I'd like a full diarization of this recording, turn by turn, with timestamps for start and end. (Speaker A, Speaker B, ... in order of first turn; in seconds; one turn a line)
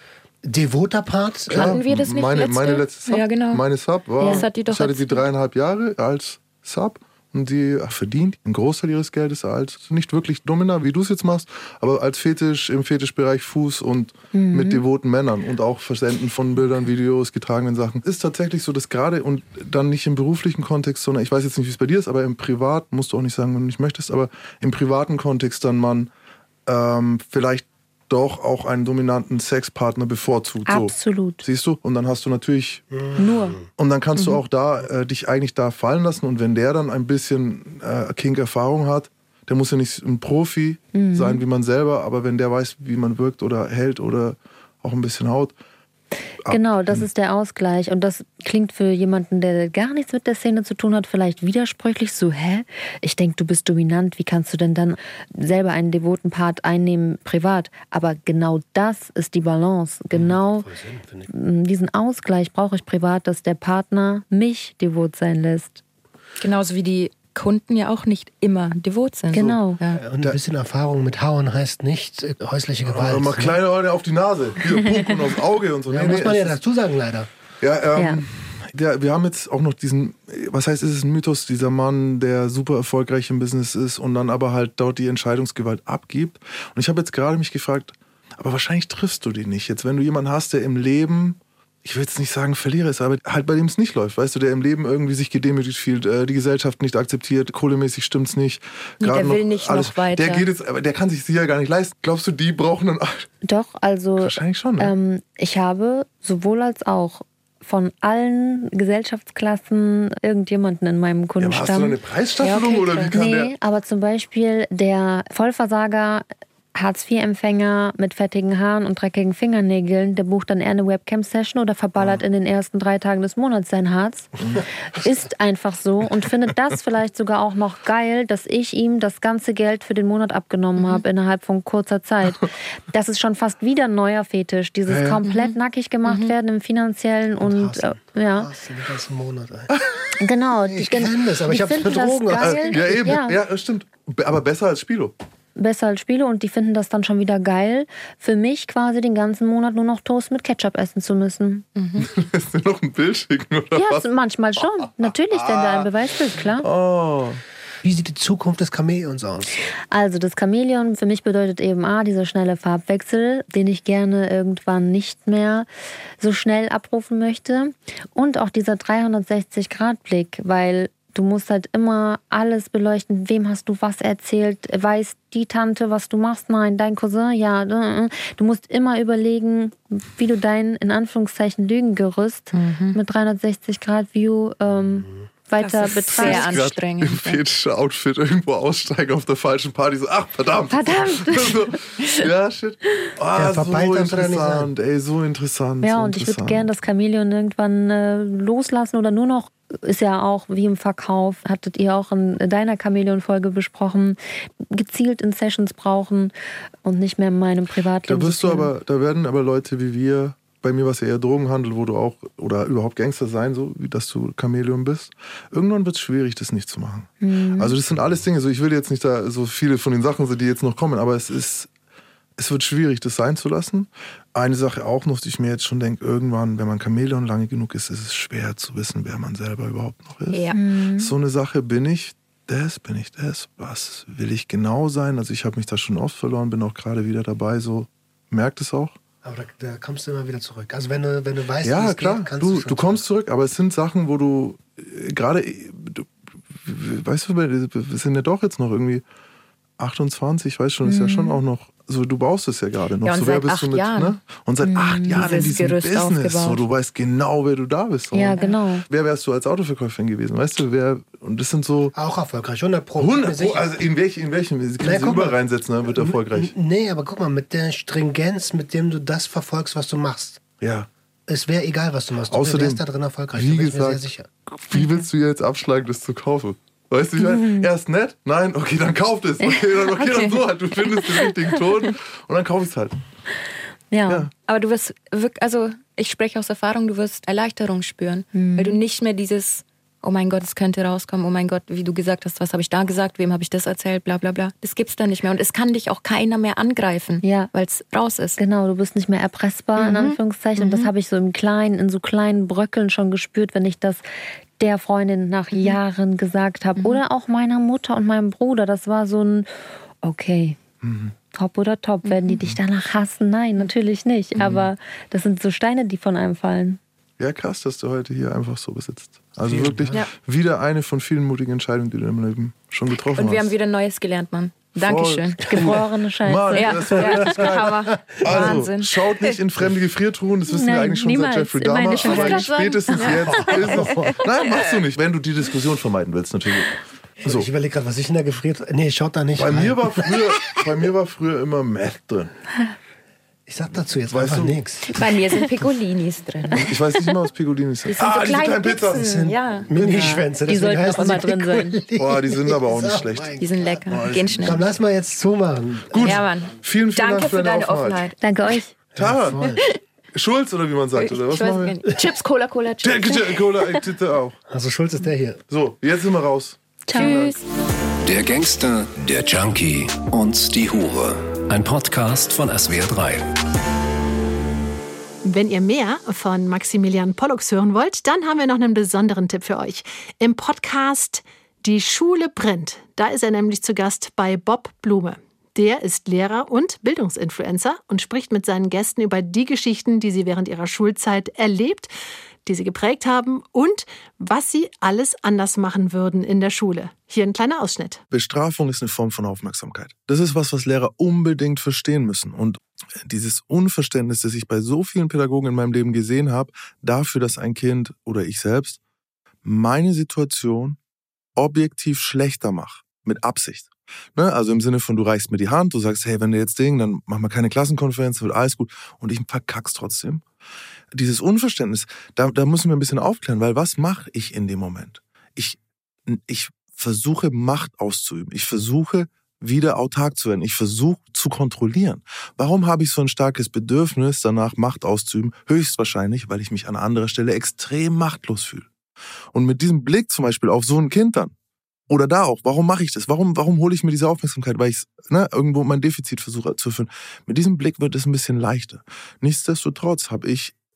Speaker A: 0.4-1.8
Speaker B: 1.5-3.6
Speaker C: 1.5-26.1
Speaker D: 4.2-4.5
Speaker B: 4.2-5.2
Speaker D: 14.3-14.8
Speaker C: 26.6-32.8
Speaker D: 30.7-31.4
Speaker A: 32.9-33.7
Speaker D: 33.2-33.6
Speaker C: 33.7-45.5
Speaker D: 40.9-41.4
Speaker C: 46.4-47.0
Speaker D: 46.5-60.7
Speaker A: 60.1-61.3
Speaker D: 61.3-65.8
Speaker B: 66.4-70.0
Speaker D: 69.3-69.8
Speaker A: 69.9-73.6
Speaker C: 72.8-76.6
Speaker A: 75.9-77.3
Speaker C: 77.6-103.3
Speaker D: 78.0-78.2
Speaker B: 99.0-100.5
Speaker D: 103.4-112.0
Speaker C: 104.2-104.9
Speaker C: 111.4-113.5
Speaker B: 112.4-113.2
Speaker D: 113.1-138.5
Speaker B: 130.8-131.0
Speaker C: 134.9-135.2
Speaker B: 135.2-135.5
Speaker B: 136.1-136.3
Speaker A: 137.4-139.7
Speaker C: 139.7-140.0
Speaker D: 140.2-143.4
Speaker A: 140.7-143.2
Speaker C: 142.4-145.1
Speaker D: 145.6-151.7
Speaker B: 151.7-152.1
Speaker C: 152.0-154.0
Speaker D: 153.7-156.7
Speaker C: 155.0-155.9
Speaker C: 156.6-157.4
Speaker A: 157.8-159.5
Speaker D: 159.9-165.7
Speaker D: 166.2-186.6
Speaker B: 182.5-183.0
Speaker B: 185.6-187.4
Speaker C: 186.1-196.7
Speaker D: 190.7-191.6
Speaker A: 193.3-194.7
Speaker D: 195.8-204.2
Speaker D: 204.7-206.3
Speaker D: 206.8-208.7
Speaker C: 208.1-221.7
Speaker D: 217.2-217.8
Speaker C: 222.4-238.9
Speaker B: 230.3-230.6
Speaker D: 230.5-231.1
Speaker A: 239.2-243.0
Speaker C: 241.6-246.1
Speaker C: 246.6-249.0
Speaker C: 249.8-261.9
Speaker D: 250.8-251.4
Speaker B: 253.0-254.1
Speaker D: 254.6-255.4
Speaker B: 255.2-256.6
Speaker D: 258.1-258.8
Speaker A: 261.9-263.8
Speaker C: 263.0-266.5
Speaker A: 264.8-270.4
Speaker C: 270.6-270.9
Speaker A: 271.3-274.3
Speaker C: 272.3-272.8
Speaker C: 273.3-274.0
Speaker C: 274.6-283.0
Speaker D: 277.2-277.7
Speaker B: 280.0-280.3
Speaker D: 283.9-284.3
Speaker B: 284.4-298.4
Speaker D: 288.3-288.8
Speaker D: 297.2-297.5
Speaker D: 298.4-304.0
Speaker B: 299.8-300.9
Speaker D: 304.6-309.5
Speaker B: 306.8-307.0
Speaker D: 310.0-310.6
Speaker C: 310.8-311.1
Speaker D: 311.3-316.8
Speaker B: 312.1-312.4
Speaker C: 314.4-314.7
Speaker C: 317.2-323.5
Speaker A: 319.4-320.0
Speaker B: 323.0-325.8
Speaker C: 324.8-337.5
Speaker D: 325.4-327.1
Speaker B: 326.5-329.4
Speaker A: 327.3-328.6
Speaker D: 330.5-332.5
Speaker B: 331.9-334.2
Speaker A: 333.0-334.2
Speaker A: 337.2-340.6
Speaker C: 339.4-342.3
Speaker A: 343.5-345.0
Speaker C: 344.1-344.6
Speaker B: 344.9-346.7
Speaker C: 346.5-349.0
Speaker B: 347.8-350.1
Speaker A: 348.9-356.2
Speaker C: 349.7-350.2
Speaker D: 349.8-351.8
Speaker B: 350.9-351.2
Speaker C: 351.9-354.6
Speaker B: 353.4-354.6
Speaker C: 355.9-358.1
Speaker B: 356.0-358.2
Speaker D: 358.2-358.7
Speaker A: 358.9-359.6
Speaker C: 358.9-361.8
Speaker B: 359.4-359.7
Speaker B: 360.9-363.8
Speaker C: 362.8-364.4
Speaker A: 364.5-365.4
Speaker C: 365.5-367.3
Speaker D: 366.9-367.3
Speaker B: 366.9-367.4
Speaker E: 368.0-373.2
Speaker F: 375.2-391.9
Speaker F: 392.4-398.0
Speaker C: 398.1-408.8
Speaker C: 409.4-410.8
Speaker C: 411.4-420.2
Speaker C: 420.9-438.7
Speaker C: 439.3-441.3
Speaker C: 441.9-450.5